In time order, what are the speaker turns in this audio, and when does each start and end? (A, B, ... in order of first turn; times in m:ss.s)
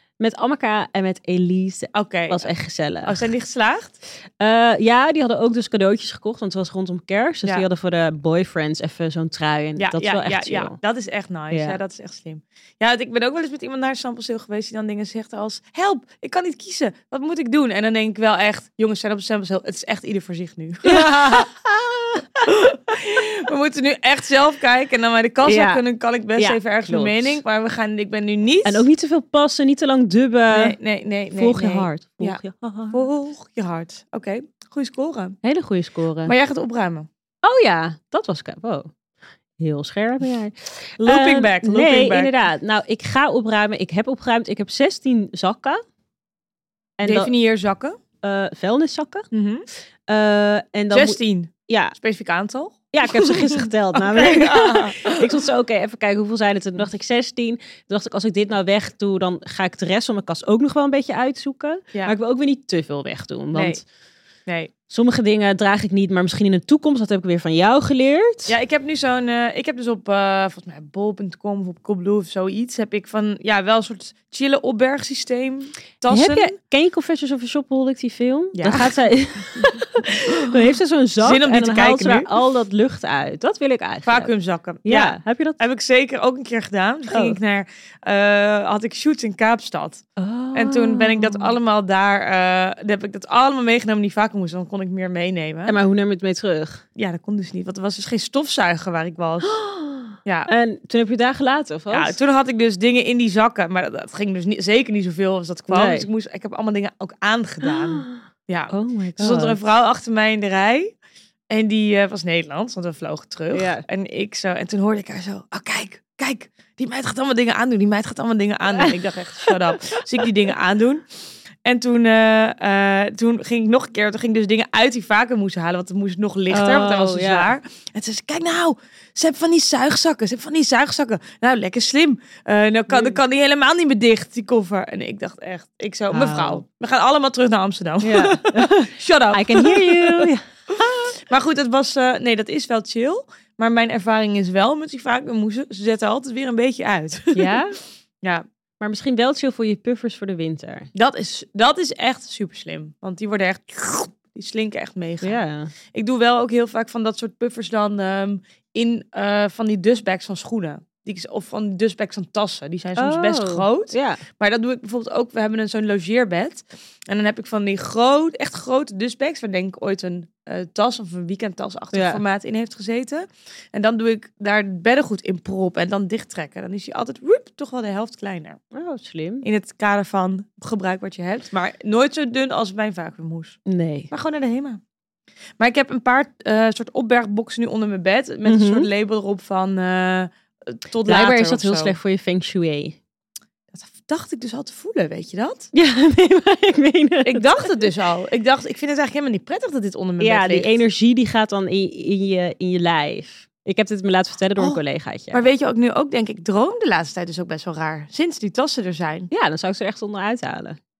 0:00.2-0:03.2 A
0:01.9-0:04.0 B
0:04.4-0:10.8 A
0:09.8-0:21.5 B
0:11.5-0:11.8 A
0:20.9-0:22.2 A
0:22.4-0:28.8 B
0:25.4-0:25.8 A
0:26.4-0:27.4 A
0:28.6-0:30.8 A
0:30.5-0:32.4 B
0:31.3-0:33.0 A
0:32.9-0:35.4 B
0:35.4-0:36.3 A
0:36.2-0:37.1 B
0:37.4-0:38.9 A
0:39.6-0:45.8 A
0:41.0-0:42.3 B
0:47.0-0:47.3 A
0:47.0-0:48.0 B
0:48.2-0:49.3 A
0:49.3-0:49.6 B
0:50.1-0:52.0 A
0:50.9-0:55.4 B
0:52.9-1:03.8 A
1:03.5-1:03.8 B
1:04.9-1:08.5 A
1:08.5-1:16.6 B
1:16.1-1:24.3 A
1:18.6-1:19.0 B
1:19.6-1:20.6 B
1:21.2-1:22.3 B
1:24.0-1:35.8 B
1:24.8-1:25.6 A
1:27.1-1:27.4 A
1:30.2-1:31.6 A
1:35.7-1:36.8 A
1:37.0-1:39.6 B
1:39.4-1:42.2 A
1:40.2-1:40.5 B
1:41.9-1:50.9 B
1:45.7-1:46.1 A
1:47.6-1:49.6 A
1:51.5-2:01.0 B
1:53.5-1:53.8 A
1:59.4-2:00.3 A
2:01.6-2:27.6 B
2:06.5-2:07.5 A
2:12.9-2:13.2 A
2:16.1-2:16.6 A
2:18.0-2:21.1 A
2:27.4-2:27.8 A
2:28.8-2:30.9 A
2:30.9-2:35.4 B
2:35.2-2:35.7 A
2:35.9-2:58.6 B
2:43.0-2:44.2 A
2:51.9-2:52.2 A
2:58.7-2:59.4 A
2:59.4-3:03.6 B
3:03.7-3:04.1 A
3:04.1-3:04.8 B
3:05.6-3:12.0 B
3:08.5-3:08.9 A
3:11.0-3:13.0 A
3:13.7-3:15.7 B
3:15.7-3:17.9 A
3:17.2-3:20.8 B
3:20.2-3:25.5 A
3:25.3-3:29.3 B
3:29.3-3:30.8 A